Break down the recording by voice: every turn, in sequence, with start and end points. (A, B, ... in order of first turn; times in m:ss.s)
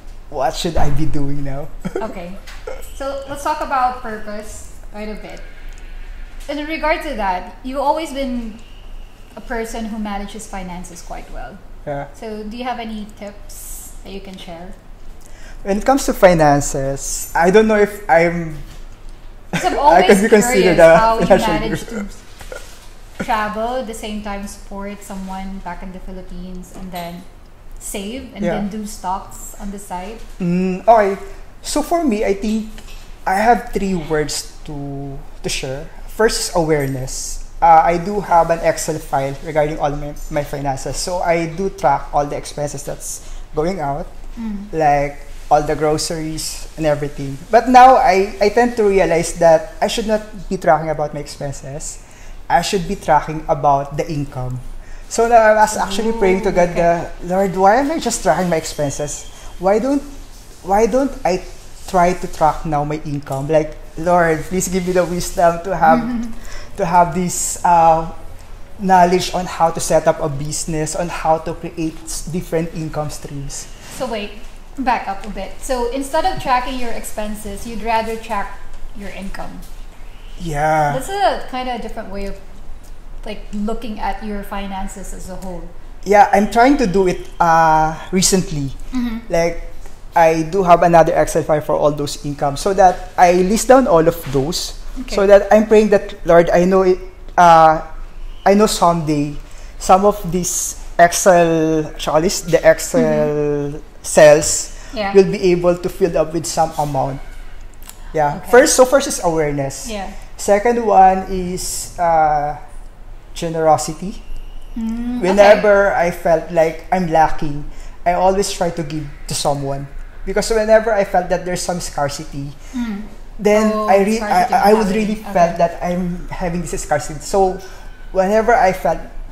0:00.3-0:02.0 A
0:02.0-0:05.4 B
0:06.5-0:08.6 B
0:09.3-0:11.6 B
0:12.1-0:14.8 B
0:15.6-0:18.6 A
0:19.5-0:22.0 A
0:19.5-0:22.2 B
0:23.2-0:27.2 B
0:27.8-0:30.2 B
0:28.4-0:28.6 A
0:30.4-0:44.1 A
0:44.4-0:44.7 B
0:44.7-1:00.1 A
0:55.7-0:56.9 B
1:00.6-1:08.2 A
1:05.8-1:06.3 B
1:08.8-1:13.7 A
1:13.9-1:19.6 B
1:20.4-1:21.0 A
1:20.9-1:22.4 B
1:23.2-1:25.7 B
1:26.0-1:37.8 A
1:28.9-1:29.2 B
1:35.0-1:35.2 B
1:38.4-1:47.2 A
1:43.0-1:43.3 B
1:44.9-1:45.2 B
1:48.1-1:52.6 A
1:48.3-1:48.7 B
1:49.8-1:50.2 B
1:53.3-1:54.2 A
1:54.7-1:55.7 B
1:55.2-2:02.6 A
2:02.7-2:05.6 B
2:03.4-2:09.1 A